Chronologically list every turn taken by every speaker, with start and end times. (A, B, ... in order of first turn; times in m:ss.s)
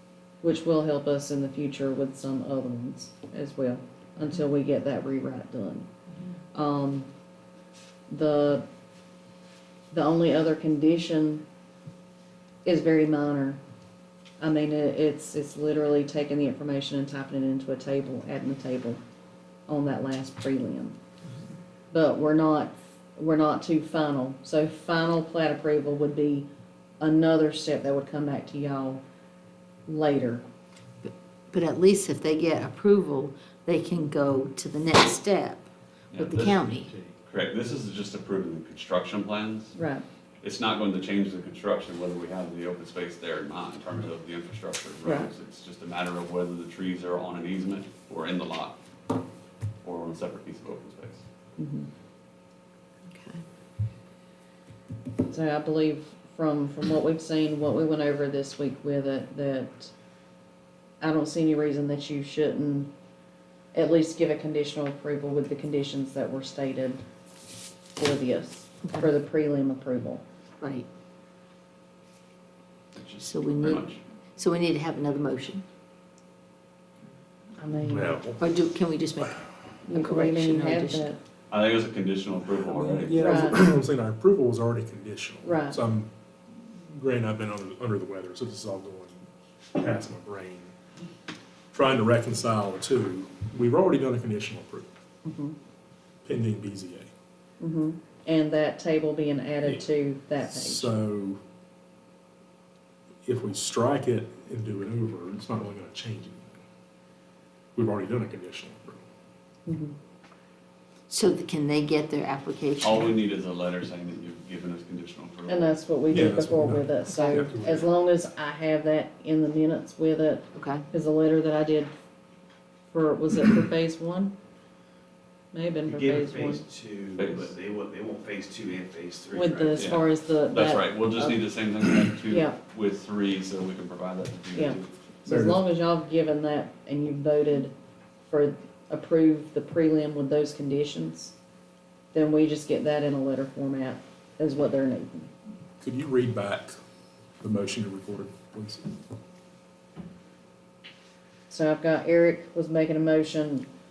0:00.4-0:05.9 A
0:06.5-0:07.1 A
0:08.1-0:08.6 A
0:09.9-0:11.4 A
0:12.6-0:13.6 A
0:14.4-0:19.0 A
0:19.7-0:21.0 A
0:21.9-0:26.5 A
0:27.0-0:29.0 A
0:29.9-0:30.4 A
0:31.0-0:36.9 B
0:36.1-0:36.6 C
0:37.2-0:39.8 C
0:39.8-0:40.0 A
0:40.4-0:48.8 C
0:45.0-0:45.3 A
0:49.8-0:51.2 C
0:51.6-0:51.9 A
0:53.1-0:53.4 B
0:55.3-0:59.9 A
1:01.0-1:02.9 A
1:03.7-1:07.0 A
1:08.0-1:10.2 A
1:10.6-1:10.9 B
1:12.9-1:14.0 C
1:13.2-1:15.6 B
1:17.6-1:18.2 A
1:17.9-1:18.4 D
1:18.4-1:21.1 B
1:19.9-1:21.2 A
1:21.5-1:23.4 C
1:22.7-1:30.7 D
1:23.1-1:23.7 A
1:25.4-1:25.8 A
1:31.7-1:34.9 D
1:35.2-1:35.6 A
1:36.2-1:37.1 D
1:37.6-1:40.9 A
1:40.4-1:41.4 D
1:43.2-1:46.6 D
1:47.8-1:49.0 D
1:49.7-1:50.0 A
1:51.1-1:53.2 B
1:52.8-1:56.3 C
1:55.5-2:01.9 A
1:56.1-1:57.9 D
2:00.5-2:00.8 B
2:02.9-2:04.4 A
2:05.5-2:06.6 A
2:05.9-2:09.9 E
2:07.2-2:07.5 C
2:09.3-2:11.4 A
2:09.8-2:14.9 C
2:12.3-2:12.6 A
2:14.6-2:17.7 A
2:15.3-2:15.6 D
2:18.3-2:21.4 A
2:22.1-2:25.3 A
2:25.8-2:26.8 D
2:27.4-2:28.9 D
2:31.5-2:33.7 A